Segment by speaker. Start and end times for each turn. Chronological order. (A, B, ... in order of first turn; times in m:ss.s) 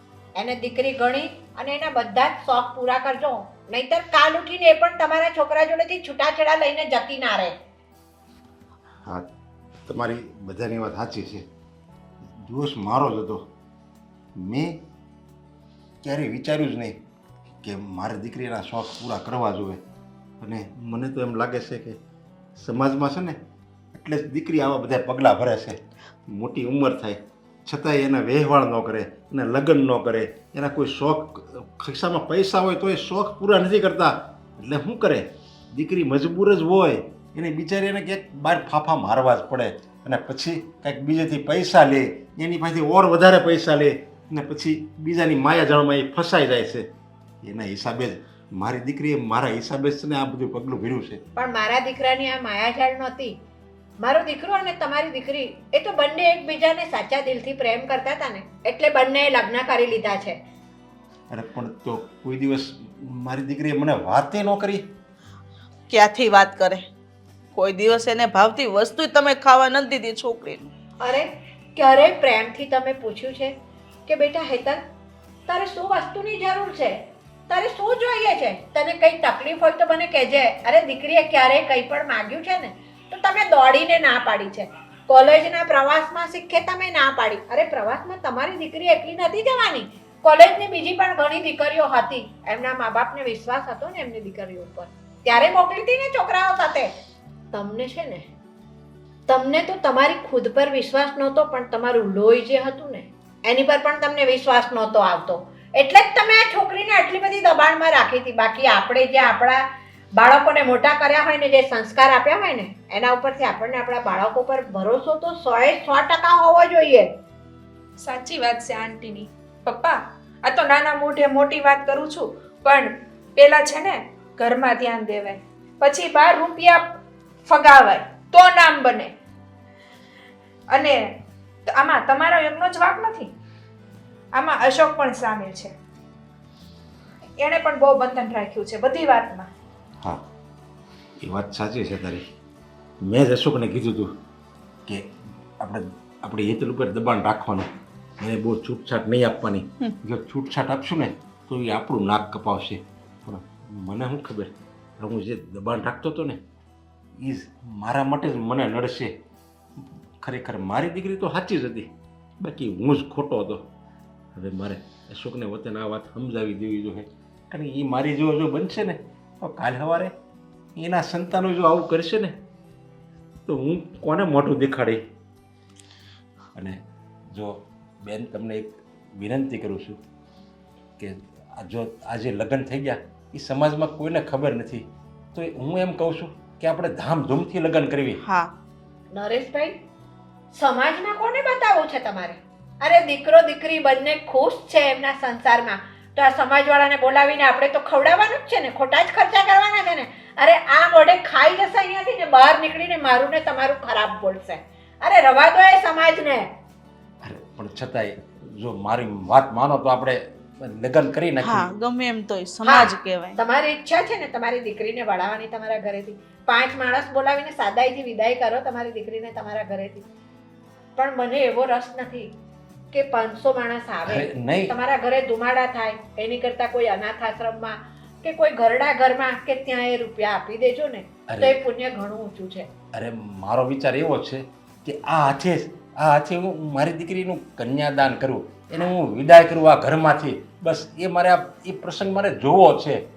0:00.4-0:07.5 A
0:09.9-0:11.4 B
0:12.4-0:13.4 B
0:14.4-0:14.8 B
0:16.0-0:17.0 B
0:17.6-0:19.8 B
0:20.4-0:22.0 B
0:22.6-0:23.4 B
0:23.9-0:46.9 B
0:47.4-0:51.2 B
0:51.4-0:53.4 A
0:54.0-1:00.4 A
1:01.3-1:04.8 B
1:05.9-1:06.8 C
1:07.6-1:10.7 C
1:11.0-1:13.5 A
1:14.1-1:14.8 A
1:15.5-1:17.0 A
1:17.5-1:36.9 A
1:37.5-1:38.3 A
1:39.3-1:49.6 A
1:50.2-1:57.1 A
1:58.0-2:09.1 D
2:10.7-2:11.1 D
2:11.7-2:13.3 D
2:14.3-2:15.7 D
2:17.4-2:19.5 D
2:21.2-2:22.2 B
2:23.0-2:24.1 B
2:25.6-2:36.4 B
2:37.2-2:39.1 B
2:40.2-2:43.6 B
2:44.4-2:50.1 B
2:50.8-2:52.4 B
2:53.4-2:55.0 B
2:57.3-3:00.0 B
3:01.0-3:08.2 B
3:08.2-3:08.5 C
3:09.1-3:09.8 A
3:10.5-3:26.4 A
3:27.2-3:31.7 B
3:31.4-3:33.4 C
3:32.6-3:40.0 A
3:41.0-3:42.3 A
3:42.9-3:52.7 A
3:44.1-3:44.7 B
3:51.3-3:51.6 B
3:52.9-4:03.0 B